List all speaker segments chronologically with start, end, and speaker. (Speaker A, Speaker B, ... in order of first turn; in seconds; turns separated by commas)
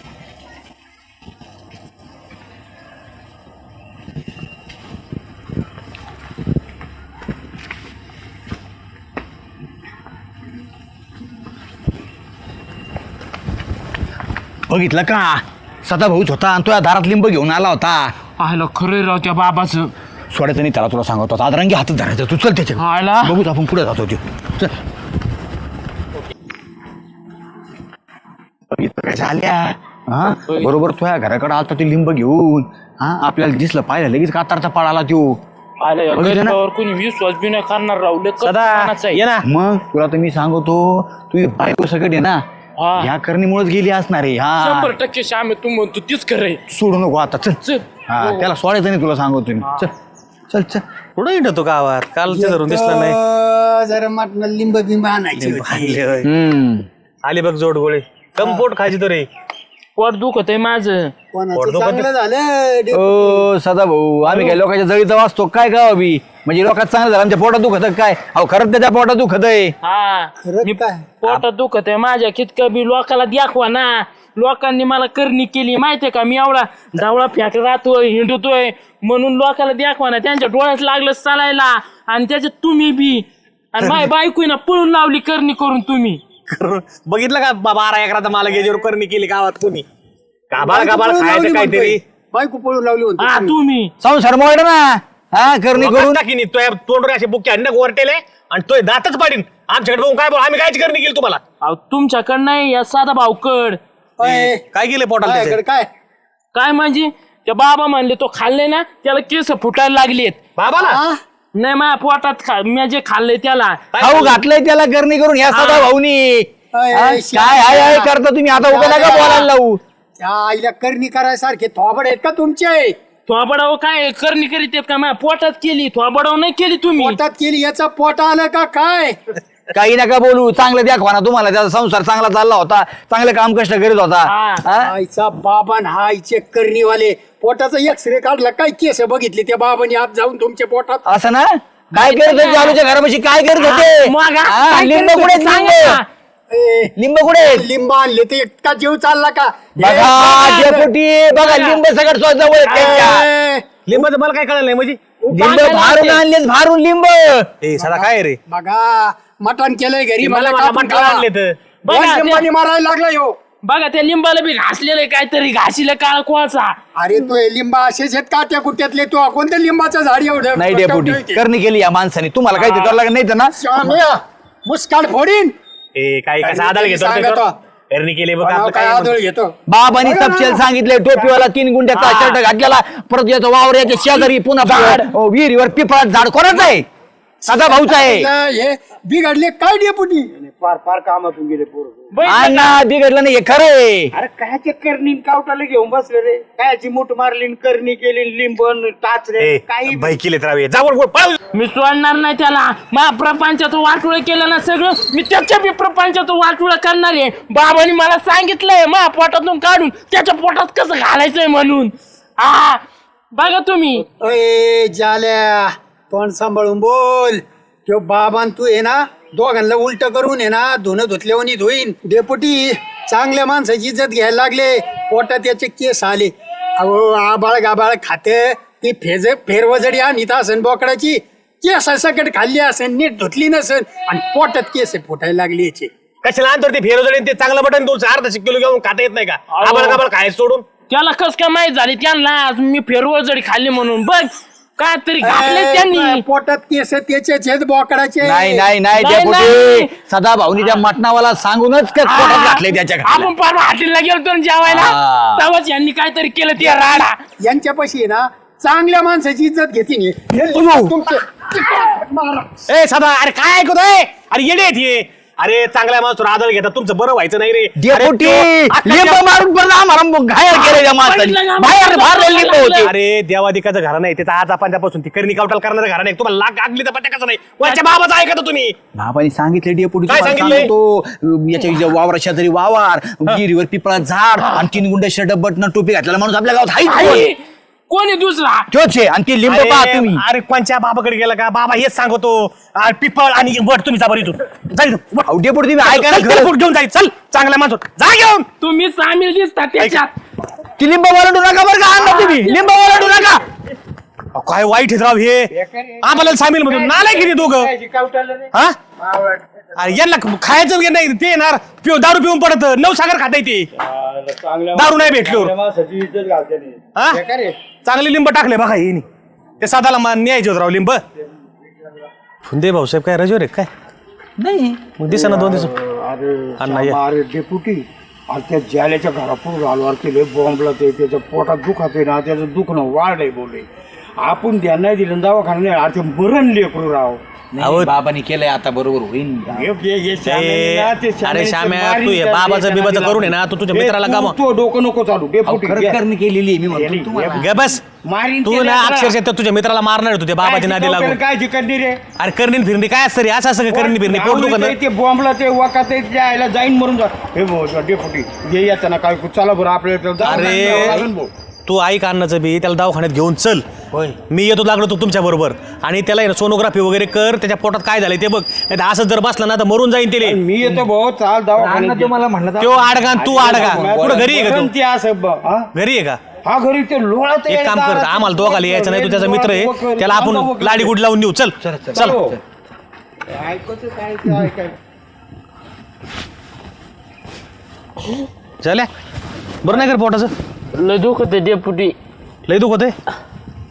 Speaker A: 14.7-18.1, Speaker B: 18.4-19.9, Speaker A: 20.3-24.7, Speaker B: 22.8-23.4, Speaker A: 28.7-35.4, Speaker B: 35.8-39.2, Speaker A: 36.1-36.6, Speaker C: 38.4-39.4, Speaker A: 39.4-42.4, Speaker B: 42.8-43.1, Speaker A: 43.0-44.9, Speaker B: 44.6-46.6, Speaker A: 46.7-49.9, Speaker B: 47.6-48.5, Speaker A: 50.5-50.8, Speaker C: 51.2-53.2, Speaker D: 52.3-56.0, Speaker C: 55.4-56.3, Speaker A: 56.2-56.9, Speaker C: 57.2-59.3, Speaker B: 60.0-61.1, Speaker D: 61.3-63.5, Speaker C: 61.5-62.1, Speaker A: 62.9-69.7, Speaker D: 64.3-64.6, Speaker B: 69.8-86.2, Speaker D: 70.4-71.1, Speaker C: 83.8-84.1, Speaker C: 86.5-89.8, Speaker C: 90.5-92.0, Speaker D: 90.5-93.6, Speaker B: 93.2-93.9, Speaker A: 94.0-96.2, Speaker C: 95.8-101.4, Speaker B: 101.6-103.8, Speaker D: 104.2-104.6, Speaker C: 104.2-105.6, Speaker D: 105.2-105.9, Speaker B: 106.5-110.4, Speaker C: 110.6-111.0, Speaker D: 110.7-111.2, Speaker B: 111.5-113.8, Speaker C: 113.9-114.4, Speaker A: 114.0-119.8, Speaker B: 115.5-115.9, Speaker D: 116.7-118.1, Speaker D: 118.7-119.5, Speaker D: 120.2-123.0, Speaker B: 123.3-127.2, Speaker D: 127.0-129.2, Speaker A: 129.7-134.9, Speaker B: 134.2-134.6, Speaker D: 134.8-141.0, Speaker A: 141.1-146.0, Speaker B: 141.9-142.8, Speaker B: 143.6-146.1, Speaker D: 146.5-150.9, Speaker A: 146.9-147.7, Speaker A: 149.8-153.3, Speaker D: 152.7-154.1, Speaker C: 153.9-155.0, Speaker A: 155.3-157.5, Speaker B: 155.3-156.2, Speaker C: 157.6-158.4, Speaker D: 157.8-161.2, Speaker C: 160.2-161.6, Speaker B: 161.8-162.4, Speaker D: 161.8-163.4, Speaker B: 163.6-166.8, Speaker D: 167.0-171.4, Speaker A: 170.5-174.0, Speaker D: 172.5-172.9, Speaker D: 173.6-175.5, Speaker C: 175.9-179.1, Speaker D: 176.4-177.5, Speaker D: 178.4-180.6, Speaker A: 179.7-186.8, Speaker B: 184.6-185.0, Speaker D: 187.4-190.3, Speaker A: 187.4-188.3, Speaker E: 190.3-192.1, Speaker B: 192.1-192.8, Speaker A: 192.2-194.1, Speaker E: 194.1-200.1, Speaker C: 199.4-201.3, Speaker B: 201.5-214.0, Speaker D: 214.1-235.9, Speaker C: 236.2-240.6, Speaker B: 239.5-240.0, Speaker B: 240.9-246.2, Speaker D: 245.2-248.7, Speaker A: 248.2-253.3, Speaker B: 248.9-249.9, Speaker B: 252.0-257.2, Speaker A: 254.6-255.4, Speaker D: 257.4-262.6, Speaker A: 260.5-260.9, Speaker C: 262.7-269.2, Speaker A: 267.8-272.9, Speaker B: 270.5-272.9, Speaker C: 272.8-278.8, Speaker A: 278.9-287.2, Speaker C: 280.1-280.7, Speaker B: 286.9-288.7, Speaker A: 288.7-290.2, Speaker C: 289.5-295.3, Speaker A: 295.2-296.5, Speaker C: 295.8-298.5, Speaker B: 298.6-300.1, Speaker A: 300.8-303.4, Speaker B: 302.0-302.5, Speaker C: 304.3-305.5, Speaker E: 305.5-309.4, Speaker C: 306.0-307.7, Speaker C: 309.8-313.7, Speaker E: 313.8-317.6, Speaker C: 314.7-315.5, Speaker C: 317.8-319.0, Speaker C: 319.6-321.0, Speaker C: 322.4-323.7, Speaker A: 324.4-324.9, Speaker E: 325.0-333.7, Speaker C: 325.1-325.7, Speaker C: 326.6-327.0, Speaker E: 334.2-337.2, Speaker A: 337.5-339.7, Speaker C: 337.6-337.9, Speaker E: 339.5-346.0, Speaker C: 340.2-344.4, Speaker A: 345.4-347.5, Speaker E: 346.7-347.4, Speaker C: 347.4-347.8, Speaker E: 348.0-349.1, Speaker C: 348.4-351.2, Speaker E: 350.4-352.0, Speaker C: 352.2-354.7, Speaker E: 353.7-361.3, Speaker C: 360.2-361.1, Speaker C: 361.7-363.6, Speaker A: 363.9-364.2, Speaker C: 364.3-370.4, Speaker E: 370.2-372.1, Speaker A: 371.6-374.4, Speaker C: 372.6-374.7, Speaker E: 373.2-375.7, Speaker C: 375.7-376.2, Speaker E: 376.4-380.9, Speaker C: 377.5-382.1, Speaker A: 381.6-382.4, Speaker E: 381.9-382.4, Speaker E: 383.3-384.7, Speaker C: 388.6-388.9, Speaker C: 389.6-390.3, Speaker B: 390.7-391.9, Speaker C: 392.5-392.9